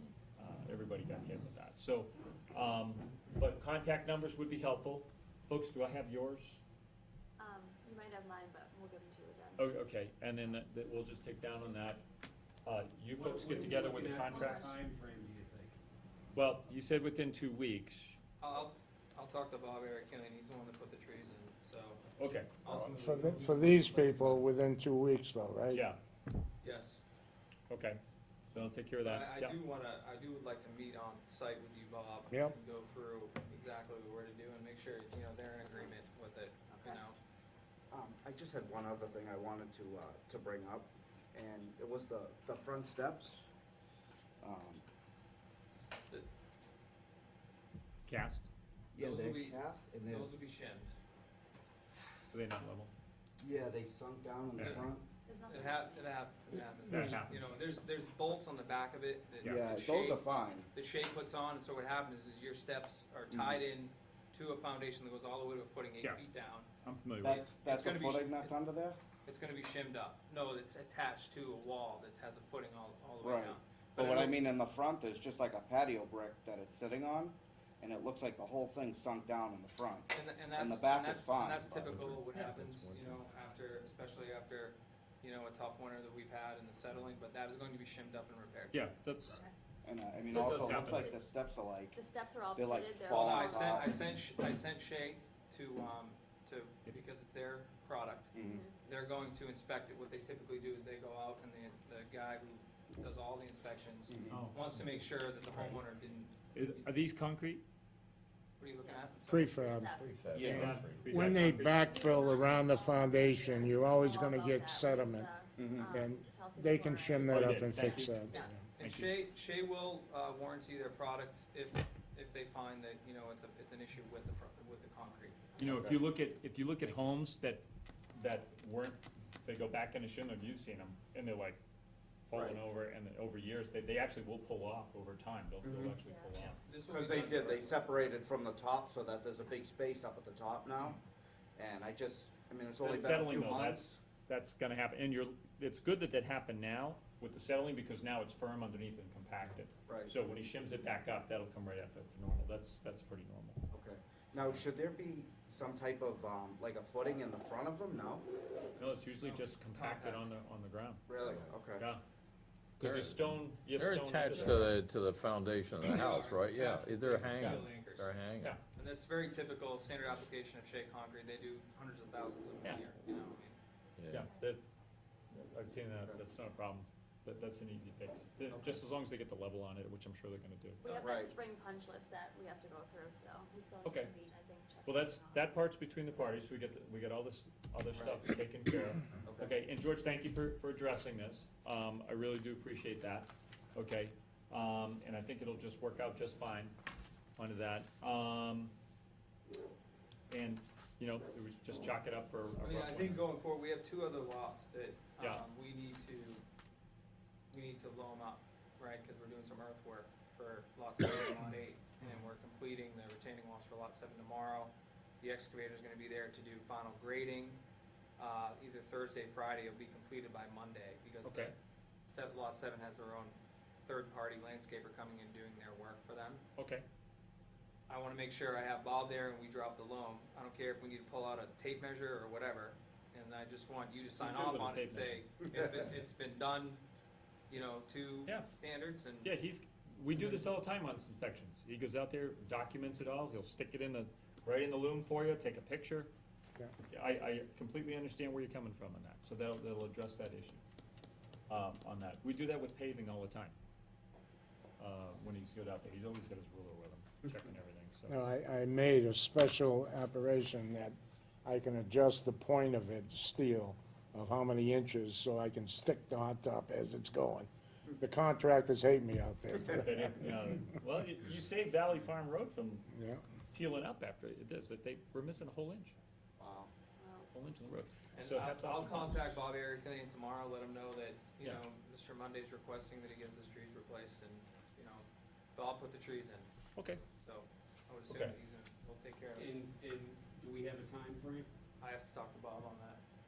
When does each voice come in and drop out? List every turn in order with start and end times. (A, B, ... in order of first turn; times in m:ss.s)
0:00.4-0:06.6 A
0:07.4-0:09.7 B
0:09.6-0:12.0 A
0:12.6-0:14.7 A
0:13.2-0:15.8 C
0:14.2-0:14.7 B
0:16.3-0:18.2 A
0:18.4-0:22.1 D
0:22.2-0:22.5 A
0:22.6-0:24.4 D
0:22.9-0:25.9 E
0:25.7-0:26.0 A
0:26.6-0:27.0 D
0:27.7-0:28.0 A
0:28.5-0:29.6 A
0:29.0-0:37.2 D
0:36.7-0:37.0 F
0:37.9-0:43.4 F
0:44.4-0:44.8 F
0:48.0-0:48.4 A
0:48.9-0:50.3 F
0:49.0-0:50.9 D
0:52.3-0:52.9 A
0:53.4-0:55.1 F
0:54.6-0:54.9 A
0:55.2-0:56.2 B
0:55.5-1:06.7 D
0:56.9-0:57.2 E
0:56.9-0:57.5 A
0:59.4-1:00.7 F
1:03.3-1:03.6 F
1:06.8-1:07.4 A
1:07.2-1:09.0 F
1:07.2-1:08.5 D
1:09.2-1:14.4 D
1:13.2-1:22.0 F
1:20.1-1:29.4 D
1:21.9-1:23.2 G
1:28.7-1:29.4 A
1:29.8-1:32.0 F
1:30.3-1:31.1 A
1:30.4-1:31.3 B
1:31.9-1:33.8 B
1:32.5-1:34.0 F
1:33.1-1:46.9 D
1:38.3-1:38.6 F
1:38.4-1:38.8 B
1:44.1-1:44.4 F
1:44.3-1:44.9 A
1:45.4-1:45.8 A
1:46.5-1:47.6 A
1:48.6-1:49.7 D
1:48.8-1:50.2 B
1:49.2-1:58.6 E
1:49.9-1:51.4 G
1:50.3-1:50.7 F
1:50.5-1:51.8 A
1:51.7-1:58.5 B
1:55.6-1:55.9 F
1:57.3-1:59.1 A
1:58.8-2:05.5 D
2:05.6-2:11.6 A
2:05.6-2:06.0 F
2:12.2-2:16.6 A
2:12.3-2:12.6 F
2:15.6-2:16.0 F
2:16.0-2:16.3 B
2:16.6-2:18.0 D
2:16.8-2:21.0 F
2:21.6-2:23.9 F
2:22.8-2:33.6 A
2:29.8-2:30.2 F
2:33.7-2:38.2 F
2:38.8-2:41.0 A
2:39.2-2:40.3 D
2:41.1-2:41.8 F
2:42.8-2:44.8 A
2:42.8-2:48.6 G
2:45.8-2:53.6 D
2:54.0-2:54.3 G
2:54.1-2:54.6 A
2:55.3-3:00.8 A
2:58.5-2:58.7 F
3:00.8-3:05.5 B
3:00.8-3:01.3 F
3:03.8-3:04.1 A
3:04.8-3:16.8 A
3:07.9-3:08.2 F
3:09.2-3:09.5 F
3:17.4-3:18.7 A
3:20.3-3:23.2 A
3:22.6-3:26.4 D
3:25.2-3:25.4 A
3:27.5-3:37.6 D
3:32.0-3:32.2 A
3:38.2-3:46.4 D
3:41.2-3:41.5 A
3:46.6-3:46.8 A
3:47.9-3:56.8 D
3:54.2-3:55.2 A
3:57.5-3:59.3 D
3:59.2-4:06.1 A
4:06.9-4:10.6 A
4:11.5-4:13.5 A
4:14.8-4:18.2 A
4:18.1-4:30.3 E
4:29.7-4:32.9 A
4:32.9-4:33.2 E
4:33.4-4:36.0 A
4:36.4-4:36.7 F
4:37.0-4:37.3 B
4:37.3-4:39.4 A
4:38.1-4:49.6 D
4:46.7-4:47.0 A
4:48.1-4:48.3 A
4:49.3-4:51.5 C
4:51.8-4:53.0 D